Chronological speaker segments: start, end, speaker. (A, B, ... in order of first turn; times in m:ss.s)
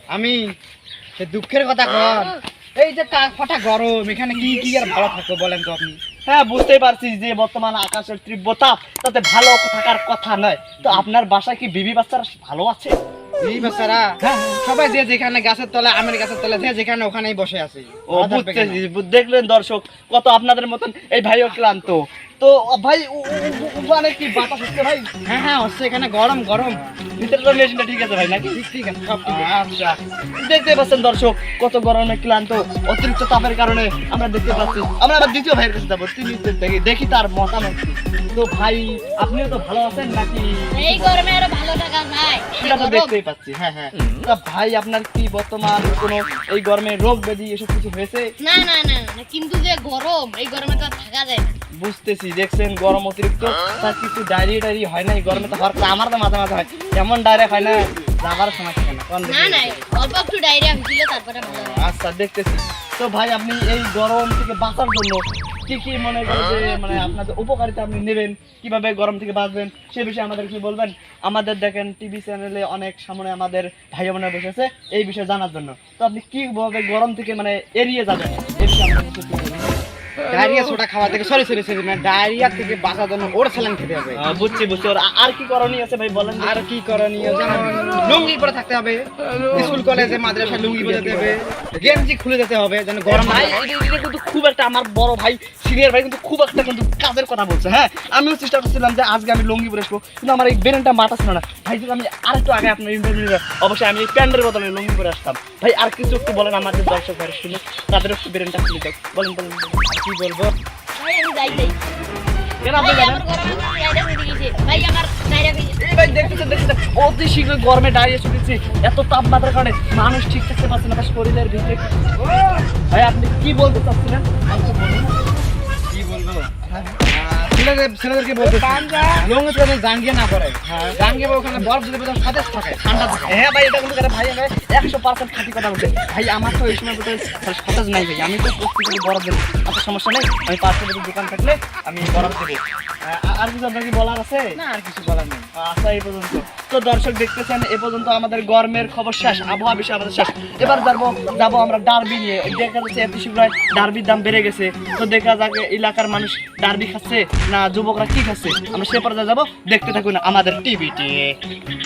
0:00.1-0:00.6 A
0:01.2-0:06.0 A
0:06.3-0:13.0 B
0:13.4-0:18.8 A
0:18.1-0:25.1 B
0:25.3-0:26.8 A
0:27.2-0:28.6 B
0:28.5-0:29.5 A
0:29.3-0:41.1 B
0:40.7-0:43.2 C
0:42.5-0:48.3 B
0:48.4-0:51.6 C
0:51.8-0:59.9 B
0:59.2-1:01.9 C
1:01.4-1:19.8 B
1:20.3-1:24.2 A
1:24.2-1:26.6 B
1:26.4-1:33.6 A
1:29.5-1:29.8 B
1:31.0-1:32.0 B
1:33.1-1:50.5 B
1:51.0-1:51.8 C
1:52.6-1:53.2 B
1:52.7-1:55.8 C
1:55.8-2:01.8 B
2:02.3-2:02.6 A
2:02.9-2:05.2 B
2:05.9-2:07.0 B
2:07.0-2:12.8 A
2:08.4-2:09.2 B
2:10.7-2:11.0 B
2:12.8-2:24.6 B
2:24.6-2:25.5 A
2:25.5-2:41.4 B